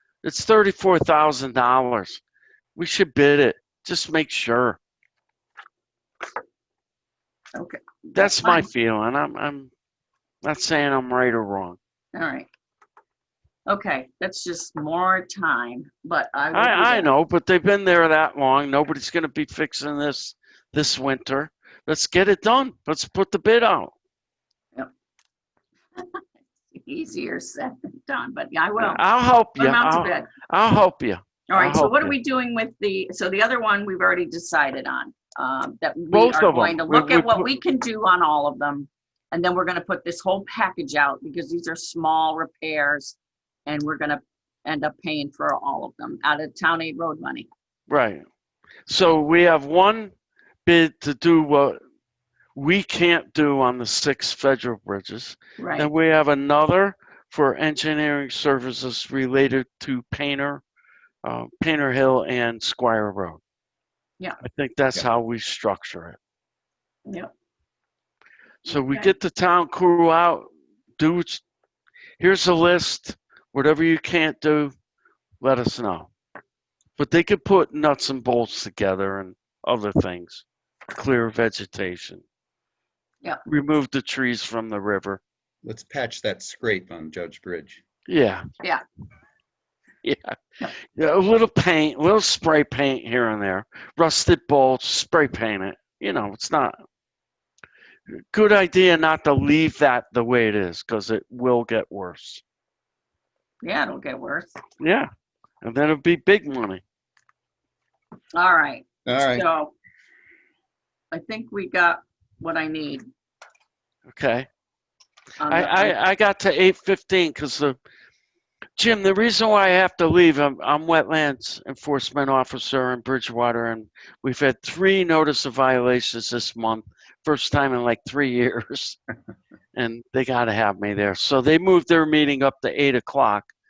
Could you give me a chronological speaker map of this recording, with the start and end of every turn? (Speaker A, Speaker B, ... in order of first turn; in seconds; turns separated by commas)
Speaker A: 0.2-2.2, Speaker A: 2.8-4.8, Speaker B: 7.5-8.7, Speaker A: 8.1-9.7, Speaker A: 10.4-11.8, Speaker B: 12.1-12.5, Speaker B: 13.7-17.1, Speaker A: 16.5-23.9, Speaker B: 26.0-29.0, Speaker A: 28.8-32.1, Speaker B: 29.6-30.3, Speaker B: 31.5-47.5, Speaker A: 36.1-37.5, Speaker A: 47.9-48.2, Speaker A: 48.9-50.1, Speaker A: 50.7-51.8, Speaker A: 52.5-60.6, Speaker B: 55.6-55.9, Speaker A: 61.2-63.4, Speaker A: 64.4-66.2, Speaker A: 68.6-70.5, Speaker B: 68.7-69.1, Speaker A: 71.0-71.4, Speaker A: 72.2-74.7, Speaker A: 75.4-76.1, Speaker A: 77.0-82.2, Speaker A: 83.5-85.2, Speaker C: 85.6-87.8, Speaker A: 88.1-88.4, Speaker A: 90.0-96.8, Speaker A: 98.3-102.4, Speaker B: 103.6-104.5, Speaker A: 104.8-105.1, Speaker A: 105.6-106.8, Speaker B: 108.3-109.7, Speaker C: 109.0-109.5, Speaker B: 111.1-113.0, Speaker A: 114.1-114.5, Speaker B: 115.4-115.9, Speaker A: 115.5-117.8, Speaker A: 118.8-129.0, Speaker A: 129.7-133.5